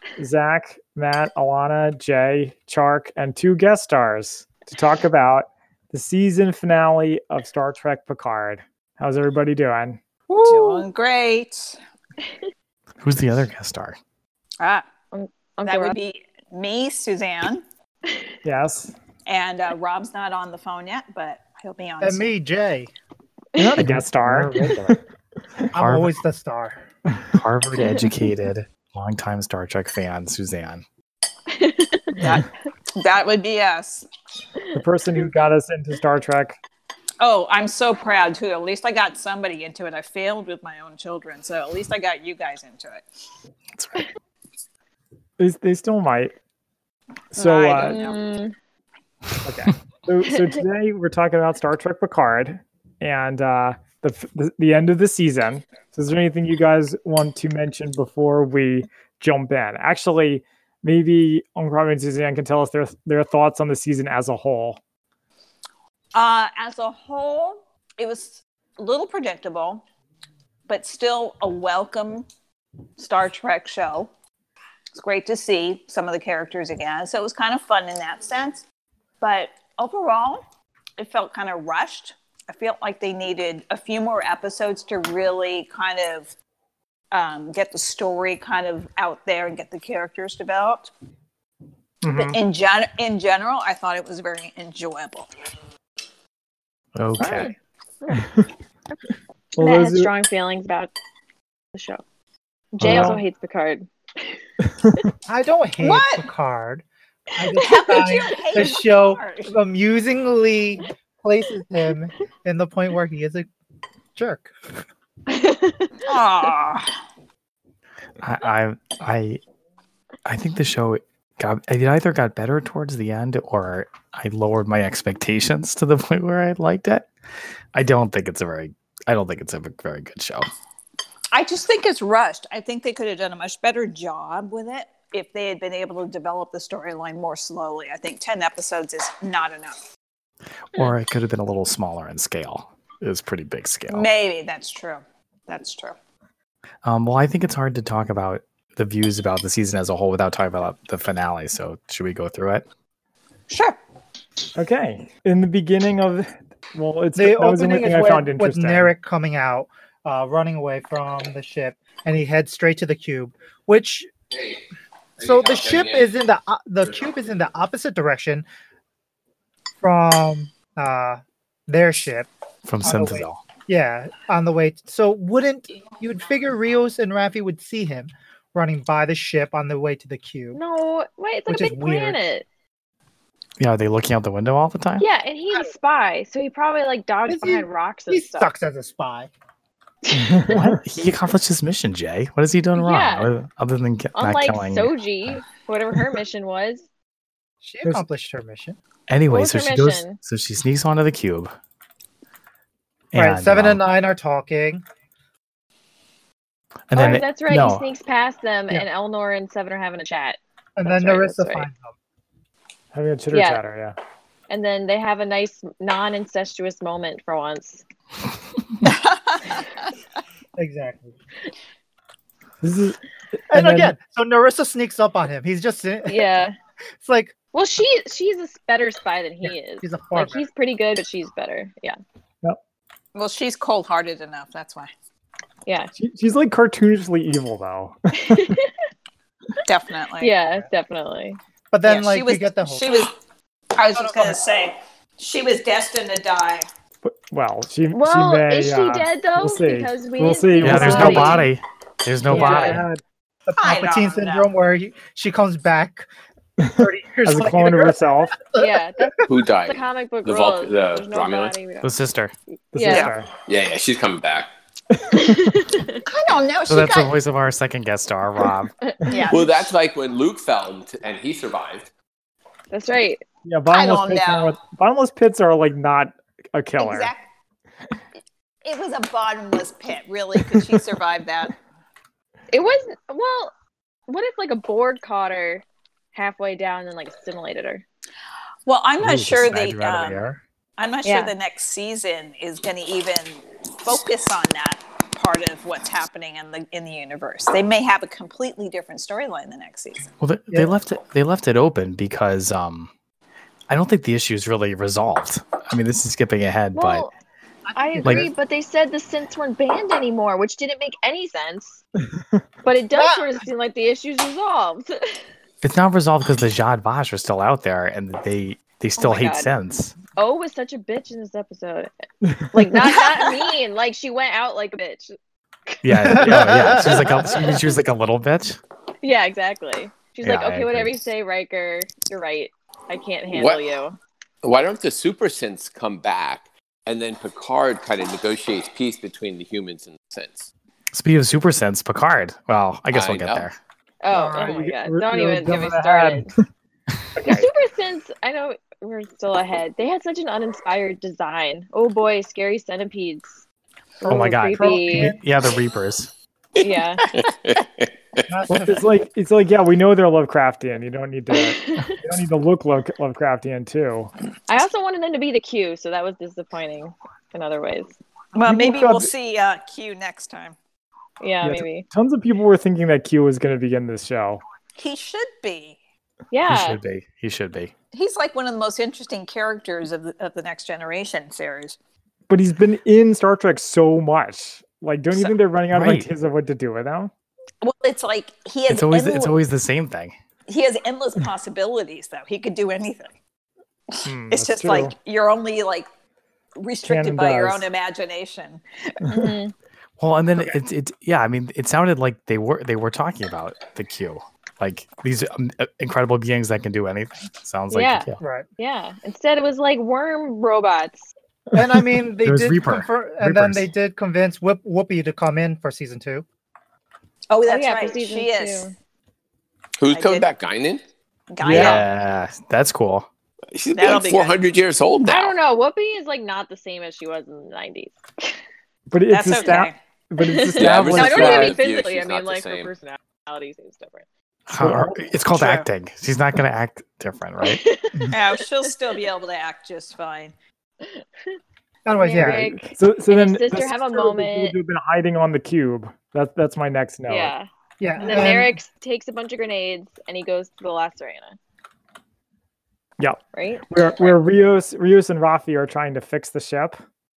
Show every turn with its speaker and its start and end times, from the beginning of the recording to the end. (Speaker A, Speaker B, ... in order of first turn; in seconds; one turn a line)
Speaker A: 0.2-10.0
Speaker B: 10.3-10.8
Speaker C: 10.4-11.8
Speaker D: 13.0-14.0
Speaker C: 14.6-14.9
Speaker E: 15.1-16.0
Speaker C: 15.6-17.6
Speaker A: 18.4-18.9
Speaker C: 19.2-22.3
Speaker B: 22.0-22.9
Speaker E: 23.6-23.8
Speaker A: 23.6-25.0
Speaker D: 23.8-24.8
Speaker D: 25.7-26.1
Speaker B: 25.7-26.8
Speaker D: 27.3-30.8
Speaker E: 31.5-32.2
Speaker C: 32.1-34.1
Speaker A: 34.8-36.6
Speaker C: 37.2-43.0
Speaker D: 43.8-44.0
Speaker A: 45.4-46.3
Speaker A: 47.3-48.0
Speaker C: 47.4-48.2
Speaker E: 47.5-48.5
Speaker A: 49.4-64.8
Speaker C: 66.1-69.8
Speaker C: 70.7-72.2
Speaker C: 73.0-74.1
Speaker C: 74.9-78.6
Speaker C: 79.2-80.4
Speaker C: 81.0-86.3
Speaker C: 87.1-90.9
Speaker A: 92.0-92.4
Speaker C: 92.1-95.3
Speaker D: 97.0-97.5
Speaker A: 97.2-97.5
Speaker A: 98.1-98.5
Speaker A: 99.5-100.1
Speaker E: 99.6-100.9
Speaker E: 101.7-102.0
Speaker E: 102.7-104.3
Speaker A: 102.8-103.2
Speaker D: 102.8-103.2
Speaker A: 104.8-105.1
Speaker B: 105.2-106.8
Speaker C: 105.8-106.3
Speaker B: 107.3-113.5
Speaker C: 107.5-109.5
Speaker B: 114.2-114.5
Speaker E: 115.3-116.1
Speaker C: 116.0-116.9
Speaker D: 118.2-119.4
Speaker D: 120.2-127.1
Speaker D: 127.7-130.4
Speaker C: 131.3-139.8
Speaker D: 140.7-144.1
Speaker C: 143.9-145.9
Speaker D: 146.8-152.6
Speaker C: 153.5-153.8
Speaker A: 154.6-158.9
Speaker B: 157.1-164.1
Speaker B: 165.2-168.4
Speaker F: 165.2-165.8
Speaker B: 169.8-172.3
Speaker D: 172.6-173.4
Speaker B: 172.8-180.6
Speaker E: 180.5-182.4
Speaker B: 181.5-182.2
Speaker D: 183.6-185.0
Speaker E: 185.0-188.5
Speaker B: 187.3-189.3
Speaker A: 190.1-190.8
Speaker E: 190.1-190.5
Speaker D: 190.5-194.9
Speaker E: 192.8-193.3
Speaker E: 194.1-196.8
Speaker B: 197.6-198.8
Speaker D: 199.1-201.5
Speaker E: 199.3-200.2
Speaker D: 203.1-203.8
Speaker B: 203.1-204.8
Speaker D: 206.9-207.8
Speaker E: 206.9-211.7
Speaker B: 210.8-211.9
Speaker A: 212.9-213.9
Speaker E: 213.3-213.6
Speaker E: 214.5-217.8
Speaker C: 218.8-219.9
Speaker B: 220.6-221.1
Speaker A: 222.6-223.9
Speaker B: 223.5-226.3
Speaker E: 226.1-226.5
Speaker B: 227.0-227.3
Speaker E: 227.5-232.0
Speaker B: 229.4-230.4
Speaker C: 233.1-234.9
Speaker E: 235.7-235.9
Speaker A: 235.9-238.5
Speaker E: 238.2-238.7
Speaker C: 239.6-240.3
Speaker E: 240.2-241.4
Speaker B: 241.7-243.0
Speaker C: 241.8-243.1
Speaker C: 243.8-246.7
Speaker B: 243.9-244.4
Speaker A: 247.0-251.4
Speaker E: 247.9-251.5
Speaker D: 250.6-252.8
Speaker A: 252.3-253.0
Speaker E: 252.3-252.8
Speaker B: 253.5-256.1
Speaker C: 253.6-254.5
Speaker A: 256.6-258.4
Speaker B: 256.8-259.2
Speaker E: 258.6-261.9
Speaker F: 259.2-261.6
Speaker D: 261.8-262.3
Speaker E: 262.7-263.1
Speaker A: 262.7-263.3
Speaker F: 263.5-264.5
Speaker A: 264.9-265.4
Speaker E: 265.1-266.0
Speaker C: 266.1-267.1
Speaker D: 266.7-268.7
Speaker E: 268.9-269.2
Speaker C: 269.1-269.7
Speaker F: 269.3-271.9
Speaker E: 272.7-273.2
Speaker A: 273.4-277.1
Speaker C: 273.7-274.6
Speaker C: 276.8-277.2
Speaker C: 278.6-281.6
Speaker E: 282.5-283.5
Speaker E: 284.1-287.8
Speaker C: 288.6-290.2
Speaker D: 289.0-290.4
Speaker C: 290.8-300.1
Speaker E: 291.0-291.3
Speaker D: 300.2-302.9
Speaker D: 303.7-307.1
Speaker E: 306.7-307.1
Speaker B: 307.7-308.3
Speaker E: 307.7-311.8
Speaker D: 308.0-308.3
Speaker A: 312.0-312.4
Speaker E: 312.6-315.2
Speaker B: 312.9-313.3
Speaker D: 315.6-319.9
Speaker E: 319.0-319.5
Speaker E: 320.1-321.9
Speaker A: 322.2-322.6
Speaker E: 322.5-325.1
Speaker E: 325.7-327.0
Speaker D: 325.8-328.6
Speaker B: 326.0-327.4
Speaker E: 329.0-334.0
Speaker D: 330.2-331.1
Speaker F: 333.3-333.6
Speaker F: 334.4-340.5
Speaker D: 340.9-343.6
Speaker F: 342.9-343.5
Speaker E: 344.0-346.3
Speaker B: 344.1-344.7
Speaker A: 344.5-346.4
Speaker E: 347.2-353.4
Speaker B: 354.0-355.2
Speaker E: 354.0-355.1
Speaker D: 354.1-356.1
Speaker F: 356.6-358.2
Speaker E: 356.6-357.0
Speaker B: 358.3-358.9
Speaker A: 358.5-364.1
Speaker E: 361.5-362.0
Speaker E: 364.5-367.9
Speaker C: 368.3-370.6
Speaker A: 368.4-369.1
Speaker E: 371.2-371.9
Speaker A: 371.4-374.4
Speaker C: 374.8-375.8
Speaker E: 376.3-376.8
Speaker D: 376.4-377.7
Speaker C: 377.9-381.8
Speaker A: 382.3-387.1
Speaker D: 385.7-386.1
Speaker C: 387.6-389.4
Speaker D: 388.7-390.1
Speaker C: 390.5-393.1
Speaker C: 393.9-395.9
Speaker A: 394.0-394.9
Speaker C: 396.6-399.0
Speaker A: 396.8-397.6
Speaker E: 399.1-399.5
Speaker D: 400.0-408.2
Speaker E: 407.7-411.1
Speaker B: 408.2-408.5
Speaker B: 411.5-416.2
Speaker D: 412.2-413.7
Speaker C: 417.3-418.7
Speaker E: 417.5-418.7
Speaker F: 419.8-420.8
Speaker C: 419.9-420.3
Speaker C: 421.3-421.8
Speaker A: 421.4-421.8
Speaker D: 421.5-423.1
Speaker F: 423.5-425.4
Speaker C: 423.7-424.4
Speaker E: 425.0-428.4
Speaker A: 428.9-431.6
Speaker C: 429.1-429.8
Speaker E: 430.2-434.0
Speaker F: 430.6-432.7
Speaker D: 430.6-431.5
Speaker D: 434.5-437.6
Speaker A: 434.5-435.1
Speaker E: 437.4-438.7
Speaker C: 438.1-440.3
Speaker E: 440.8-441.4
Speaker B: 441.8-442.4
Speaker E: 442.0-444.5
Speaker A: 442.2-447.3
Speaker E: 447.1-447.5
Speaker B: 447.8-448.6
Speaker C: 448.0-448.3
Speaker E: 448.0-451.4
Speaker A: 453.0-456.8
Speaker E: 453.3-454.1